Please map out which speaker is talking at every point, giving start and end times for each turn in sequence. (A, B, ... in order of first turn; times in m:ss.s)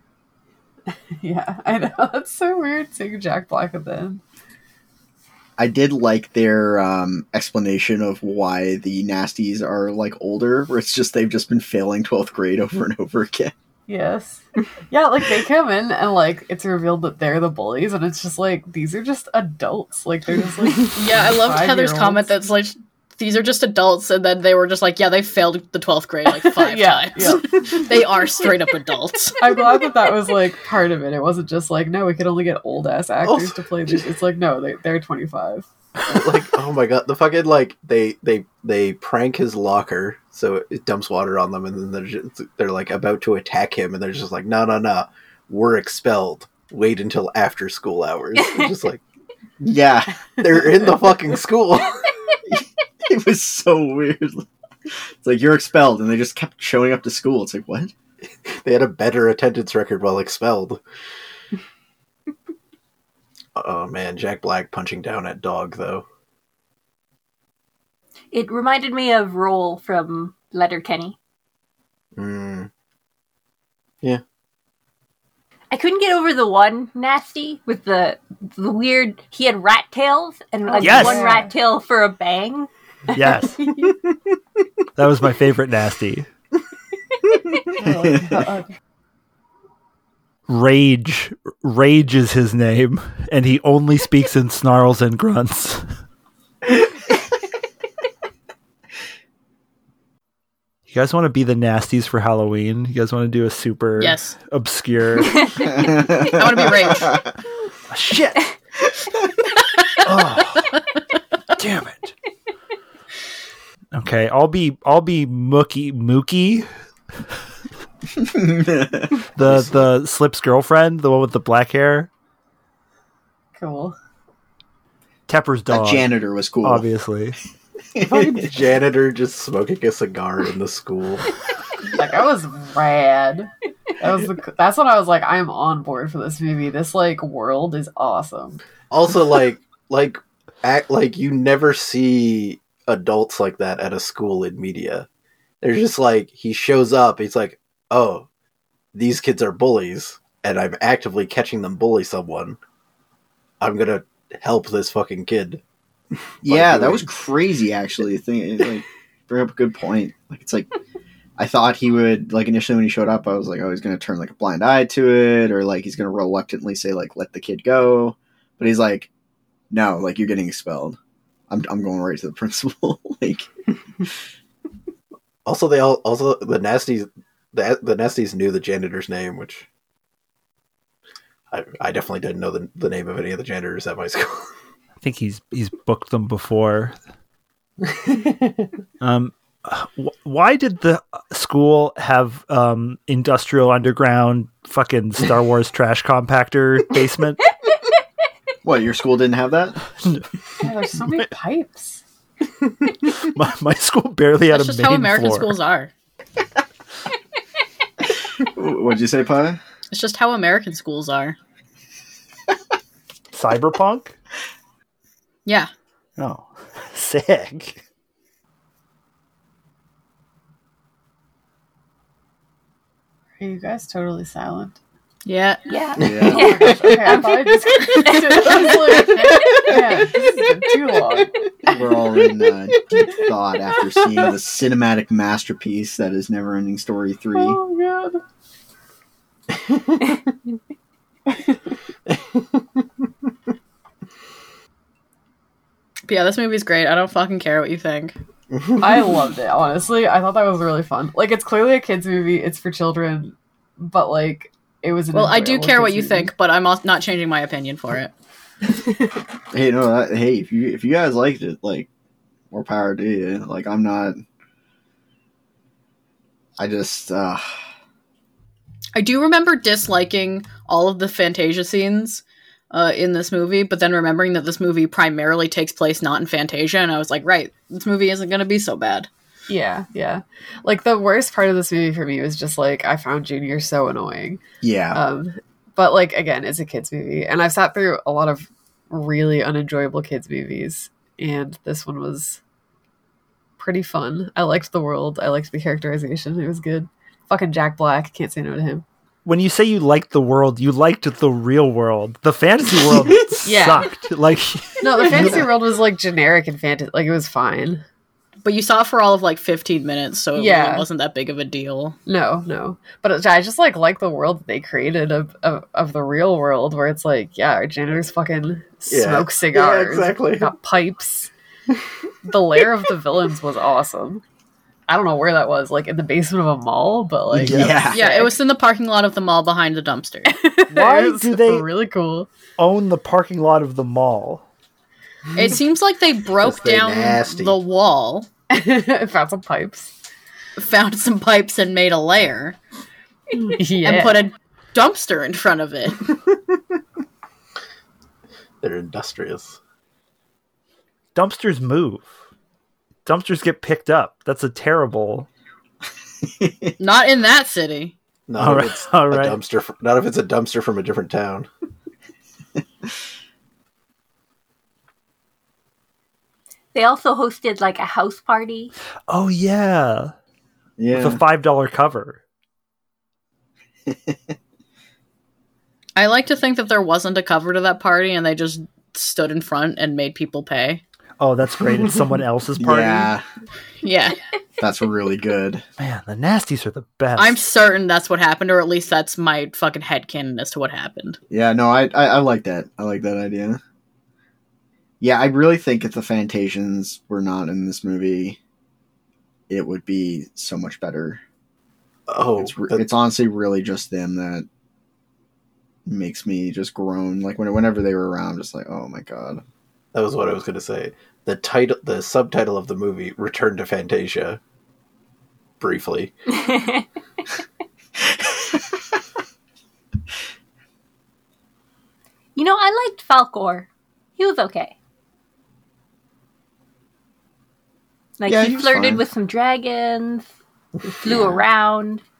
0:00.9-0:04.2 A
0:05.6-0:13.5 B
0:13.9-0:22.3 A
0:20.9-0:29.6 C
0:26.4-0:27.5 A
0:29.4-0:35.7 A
0:33.2-0:34.0 D
0:36.1-0:49.0 D
0:49.6-0:50.7 B
0:50.4-0:52.1 D
0:52.5-0:54.5 B
0:55.2-0:57.9 B
0:58.5-1:00.8 D
1:03.6-1:06.0 D
1:08.3-1:11.2 E
1:12.2-1:12.7 D
1:15.7-1:22.7 E
1:20.6-1:21.5 A
1:20.8-1:21.3 F
1:23.1-1:23.6 F
1:25.0-1:26.3 F
1:27.7-1:28.7 A
1:30.5-1:35.9 F
1:40.9-1:45.8 F
1:44.0-1:44.4 C
1:45.7-1:46.3 B
1:45.9-1:47.2 C
1:47.9-1:48.4 F
1:50.0-1:50.7 F
1:51.6-1:52.1 F
1:53.9-1:56.7 F
1:58.2-1:59.2 B
1:59.3-2:02.1 F
2:03.6-2:04.0 A
2:05.3-2:06.1 F
2:05.7-2:06.9 B
2:06.6-2:07.4 F
2:08.0-2:08.4 B
2:08.0-2:11.3 D
2:11.9-2:18.6 A
2:18.9-2:25.1 D
2:25.6-2:28.3 D
2:28.9-2:32.6 D
2:33.6-2:35.6 D
2:36.4-2:37.1 D
2:36.4-2:40.7 B
2:41.4-2:49.1 B
2:49.7-2:51.0 B
2:51.5-2:53.5 B
2:55.4-2:59.7 D
3:01.5-3:04.5 D
3:05.0-3:07.0 F
3:07.9-3:08.5 D
3:09.0-3:17.4 F
3:18.6-3:19.8 B
3:20.0-3:21.3 F
3:20.6-3:22.0 A
3:23.0-3:25.5 F
3:24.5-3:25.9 C
3:28.4-3:29.6 B
3:29.9-3:31.4 C
3:33.3-3:34.1 F
3:36.2-3:37.8 F
3:43.4-3:44.8 A
3:45.2-3:45.6 C
3:45.7-3:47.4 E
3:46.0-3:46.6 B
3:46.2-3:51.7 A
3:47.9-3:49.0 E
3:51.6-3:57.6 B
3:57.3-3:58.2 A
4:02.1-4:02.4 D
4:06.1-4:08.2 C
4:08.5-4:08.8 D
4:08.8-4:16.3 A
4:15.1-4:18.1 C
4:19.5-4:21.9 B
4:22.5-4:24.2 B
4:26.6-4:27.4 B
4:28.9-4:39.1 C
4:39.5-4:44.4 A
4:44.6-4:45.0 B
4:44.9-4:52.4 A
4:53.6-4:58.8 A
4:59.2-5:05.4 F
5:03.4-5:03.9 A
5:04.8-5:07.8 A
5:08.4-5:12.0 C
5:10.3-5:10.9 A
5:12.0-5:21.3 A
5:18.9-5:20.5 D
5:22.2-5:24.2 A
5:24.9-5:28.3 A
5:27.3-5:28.0 B
5:27.5-5:27.8 F
5:27.9-5:30.4 C
5:30.3-5:32.3 A
5:30.7-5:31.7 F
5:32.6-5:34.4 F
5:35.3-5:38.3 C
5:36.4-5:37.6 D
5:38.5-5:39.9 A
5:40.6-5:42.6 C
5:43.4-5:44.2 A
5:43.8-5:46.1 C
5:48.6-5:49.6 D
5:51.1-5:52.1 F
5:53.0-5:55.3 F
5:56.3-5:56.7 B
5:56.8-5:57.9 C
5:58.3-6:01.5 D
5:58.4-5:59.4 F
6:06.7-6:08.7 E
6:09.1-6:10.1 F
6:10.8-6:11.2 B
6:10.9-6:12.2 F
6:13.9-6:14.3 B
6:16.0-6:20.8 C
6:21.2-6:23.1 F
6:22.6-6:23.2 B
6:23.8-6:24.2 C
6:24.6-6:25.6 B
6:25.8-6:27.4 F
6:27.2-6:31.2 C
6:31.3-6:33.6 B
6:35.0-6:38.4 B
6:39.5-6:41.2 B
6:42.1-6:42.8 D
6:42.4-6:44.4 B
6:45.8-6:49.4 B
6:49.9-6:54.4 D
6:55.6-6:56.1 D
6:56.4-6:56.8 E
7:02.4-7:04.7 E
7:08.2-7:10.3 E
7:08.2-7:09.0 B
7:11.0-7:12.0 E